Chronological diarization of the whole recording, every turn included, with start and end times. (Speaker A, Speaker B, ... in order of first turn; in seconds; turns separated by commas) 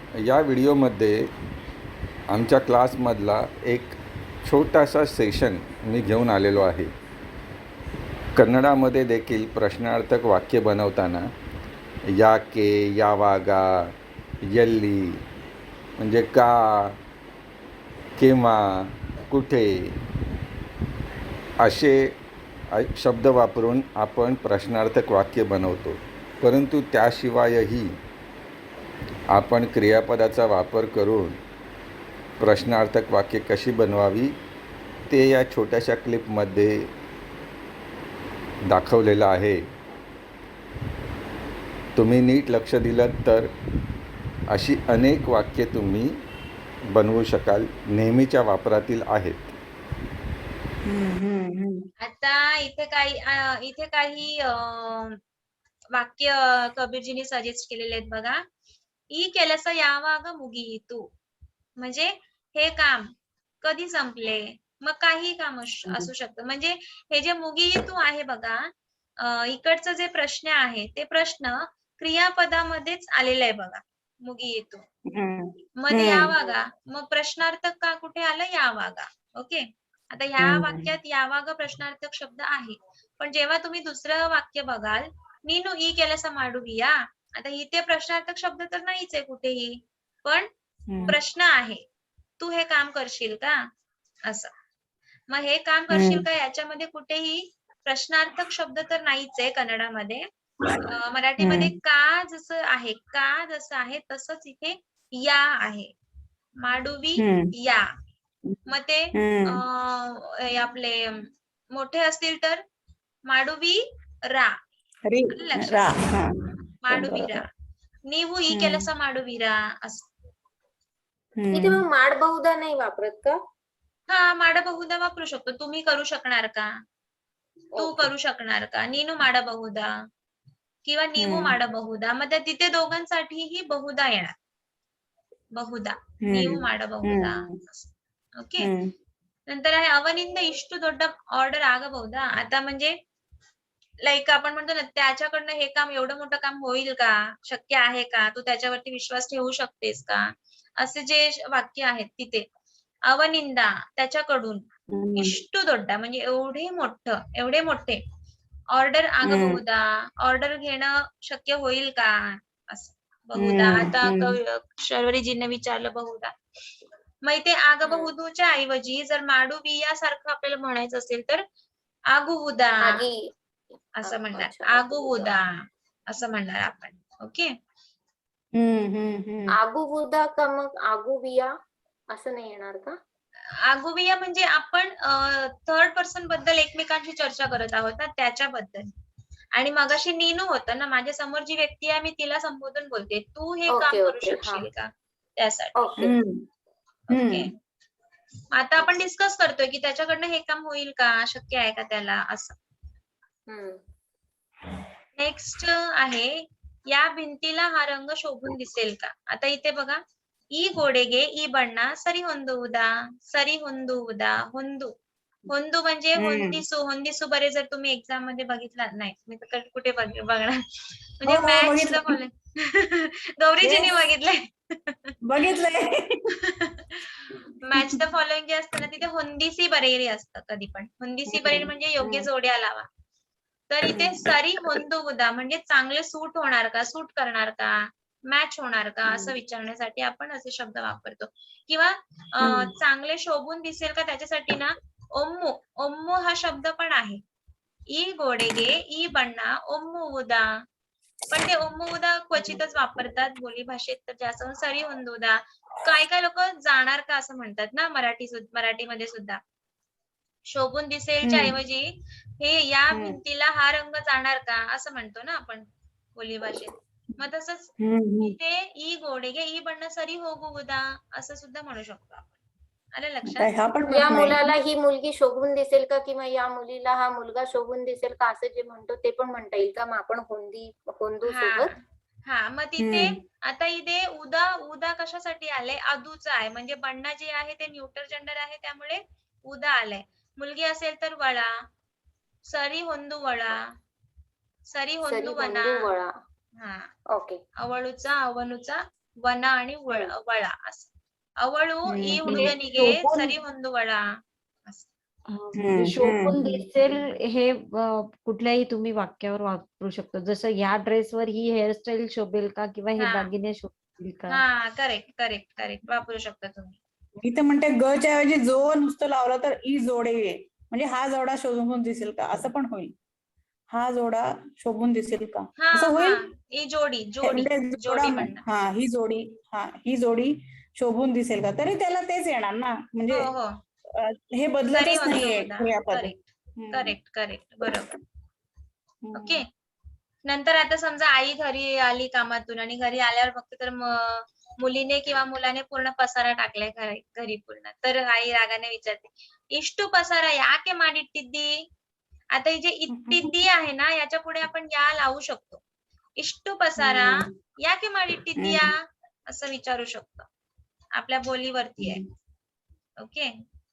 Speaker A: 0.2-1.2, Speaker A: 2.3-6.9, Speaker A: 8.3-11.3, Speaker A: 12.1-13.9, Speaker A: 14.5-15.2, Speaker A: 16.0-17.0, Speaker A: 18.2-19.9, Speaker A: 21.6-22.1, Speaker A: 22.7-27.9, Speaker A: 29.3-31.4, Speaker A: 32.4-34.3, Speaker A: 35.1-36.8, Speaker A: 38.7-39.6, Speaker A: 42.0-43.5, Speaker A: 44.5-46.1, Speaker A: 46.9-49.5, Speaker B: 50.8-51.8, Speaker C: 52.0-55.2, Speaker C: 55.9-58.4, Speaker C: 59.1-61.1, Speaker C: 61.8-63.1, Speaker C: 63.6-68.6, Speaker C: 69.2-74.8, Speaker B: 75.1-76.3, Speaker C: 75.8-90.5, Speaker B: 80.4-80.9, Speaker B: 90.9-91.2, Speaker C: 91.1-91.8, Speaker C: 92.4-93.6, Speaker C: 95.3-100.2, Speaker B: 95.9-96.2, Speaker C: 100.9-105.9, Speaker B: 101.4-101.7, Speaker C: 106.6-107.9, Speaker B: 107.2-107.5, Speaker C: 108.7-111.2, Speaker B: 109.1-109.6, Speaker C: 111.7-112.6, Speaker C: 113.3-114.5, Speaker B: 115.0-117.5, Speaker C: 115.3-115.9, Speaker C: 116.8-117.5, Speaker C: 118.1-120.1, Speaker B: 118.5-118.9, Speaker B: 121.4-121.8, Speaker D: 121.5-123.3, Speaker C: 124.1-126.7, Speaker D: 127.7-128.1, Speaker C: 127.8-129.9, Speaker C: 130.8-134.3, Speaker B: 131.2-131.6, Speaker C: 135.6-138.7, Speaker B: 136.2-137.6, Speaker B: 138.6-138.9, Speaker C: 139.5-142.9, Speaker C: 144.1-150.2, Speaker C: 150.8-152.4, Speaker C: 153.1-154.6, Speaker B: 154.9-155.4, Speaker C: 155.2-158.0, Speaker C: 158.7-166.3, Speaker B: 159.2-159.6, Speaker B: 163.4-164.3, Speaker C: 167.2-171.4, Speaker D: 167.8-168.1, Speaker C: 172.1-173.0, Speaker D: 172.8-173.2, Speaker C: 174.0-175.5, Speaker D: 174.0-175.3, Speaker C: 176.1-177.5, Speaker B: 178.5-179.6, Speaker D: 179.6-181.5, Speaker D: 182.1-182.9, Speaker C: 183.6-188.9, Speaker C: 189.6-195.8, Speaker D: 193.7-194.6, Speaker D: 195.8-196.1, Speaker B: 196.0-196.4, Speaker C: 197.1-197.5, Speaker B: 197.1-197.5, Speaker C: 198.5-202.6, Speaker D: 203.5-203.8, Speaker C: 205.2-206.3, Speaker C: 206.9-210.0, Speaker C: 210.5-214.9, Speaker C: 215.5-225.1, Speaker B: 216.2-216.6, Speaker B: 221.2-222.2, Speaker B: 223.6-224.0, Speaker B: 225.2-226.3, Speaker C: 226.4-232.9, Speaker B: 231.3-232.3, Speaker C: 233.7-237.8, Speaker C: 238.3-247.2, Speaker B: 242.4-242.7, Speaker C: 247.9-250.5, Speaker C: 251.3-259.4, Speaker C: 260.5-272.3, Speaker B: 261.2-261.5, Speaker B: 262.9-263.2, Speaker B: 267.8-268.3, Speaker C: 272.9-273.5, Speaker B: 273.2-274.5, Speaker D: 273.9-281.7, Speaker C: 281.2-291.5, Speaker B: 282.8-283.2, Speaker C: 292.5-293.6, Speaker C: 294.7-295.9, Speaker D: 295.0-296.1, Speaker C: 296.6-296.9, Speaker D: 297.1-297.4, Speaker C: 297.6-300.9, Speaker C: 301.4-304.0, Speaker B: 301.9-303.3, Speaker E: 305.3-314.4, Speaker B: 305.6-306.4, Speaker C: 313.0-313.3, Speaker C: 314.3-316.8, Speaker B: 317.2-322.9, Speaker B: 323.7-326.2, Speaker C: 325.6-328.4, Speaker B: 327.2-333.3, Speaker C: 333.1-333.6, Speaker B: 334.0-336.9, Speaker C: 334.7-337.9, Speaker B: 339.0-339.4, Speaker C: 339.1-339.4, Speaker C: 340.2-351.5, Speaker C: 352.3-355.6, Speaker B: 352.9-353.3, Speaker C: 356.2-358.8, Speaker B: 356.8-357.3, Speaker B: 358.4-358.7, Speaker C: 359.3-360.3, Speaker C: 360.9-362.0, Speaker C: 363.0-363.3